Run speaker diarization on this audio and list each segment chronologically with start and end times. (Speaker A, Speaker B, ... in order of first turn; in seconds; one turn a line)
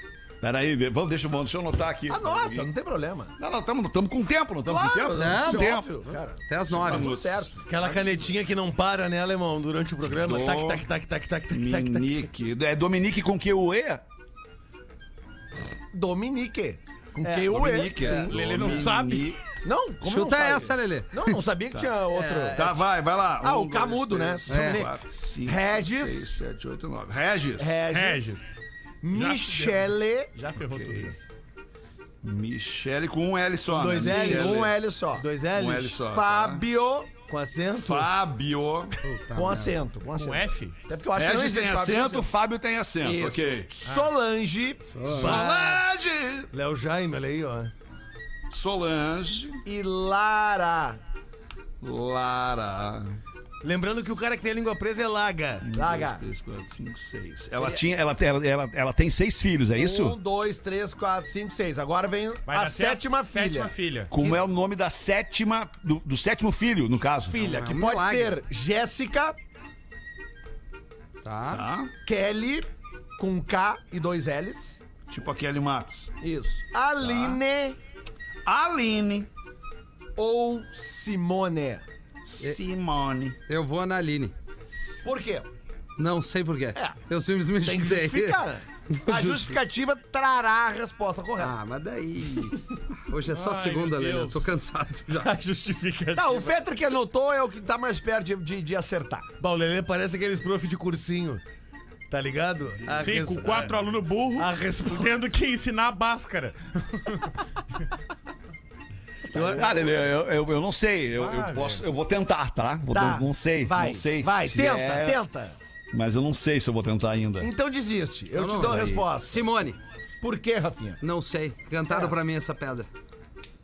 Speaker A: 0.4-2.7
Speaker B: 2.1-3.3
Speaker A: 3.4-5.9
Speaker B: 4.7-8.0
Speaker C: 5.2-5.9
Speaker C: 6.4-7.2
Speaker A: 6.8-7.5
Speaker D: 7.7-12.1
Speaker A: 10.0-10.9
Speaker A: 11.5-14.0
Speaker B: 15.9-18.9
Speaker A: 17.2-19.4
Speaker E: 18.0-19.4
Speaker B: 19.6-22.8
Speaker C: 20.0-21.4
Speaker D: 22.1-22.6
Speaker A: 22.5-27.8
Speaker B: 23.4-24.9
Speaker C: 24.5-24.9
Speaker B: 25.4-26.3
Speaker B: 27.6-28.4
Speaker E: 27.9-28.5
Speaker B: 29.0-30.3
Speaker E: 29.1-31.2
Speaker A: 30.7-31.1
Speaker A: 32.2-34.8
Speaker D: 33.7-36.0
Speaker B: 34.0-35.3
Speaker A: 35.5-36.7
Speaker B: 36.0-37.2
Speaker D: 37.3-38.1
Speaker A: 37.7-39.0
Speaker C: 39.0-39.8
Speaker B: 39.3-42.3
Speaker E: 40.2-40.8
Speaker A: 41.1-43.7
Speaker B: 43.0-45.4
Speaker E: 43.8-44.1
Speaker A: 45.1-46.5
Speaker D: 45.1-45.8
Speaker D: 46.5-47.7
Speaker A: 48.5-49.6
Speaker B: 49.7-51.0
Speaker A: 51.8-53.2
Speaker D: 53.6-55.7
Speaker A: 55.6-60.2
Speaker B: 55.7-56.2
Speaker B: 59.8-64.4
Speaker E: 62.5-64.1
Speaker A: 64.1-67.7
Speaker B: 67.3-69.4
Speaker C: 67.4-68.4
Speaker C: 71.2-71.6
Speaker A: 71.5-71.9
Speaker B: 72.0-74.8
Speaker A: 75.1-76.1
Speaker B: 76.2-77.8
Speaker A: 77.0-77.4
Speaker A: 78.5-79.3
Speaker B: 80.2-81.8
Speaker A: 82.2-83.4
Speaker C: 83.5-84.3
Speaker B: 85.0-85.5
Speaker C: 86.0-88.4
Speaker B: 87.6-91.5
Speaker C: 91.4-95.3
Speaker E: 93.3-94.5
Speaker E: 95.2-96.5
Speaker D: 95.3-96.2
Speaker B: 96.1-99.3
Speaker D: 99.4-101.4
Speaker D: 102.1-105.3
Speaker E: 102.9-107.3
Speaker B: 109.3-109.6
Speaker A: 109.3-115.2
Speaker D: 109.3-109.7
Speaker E: 111.2-111.7
Speaker B: 112.9-115.5
Speaker A: 115.9-117.5
Speaker B: 117.4-119.6
Speaker C: 118.3-119.8
Speaker B: 120.2-121.0
Speaker C: 121.0-122.9
Speaker B: 121.9-122.1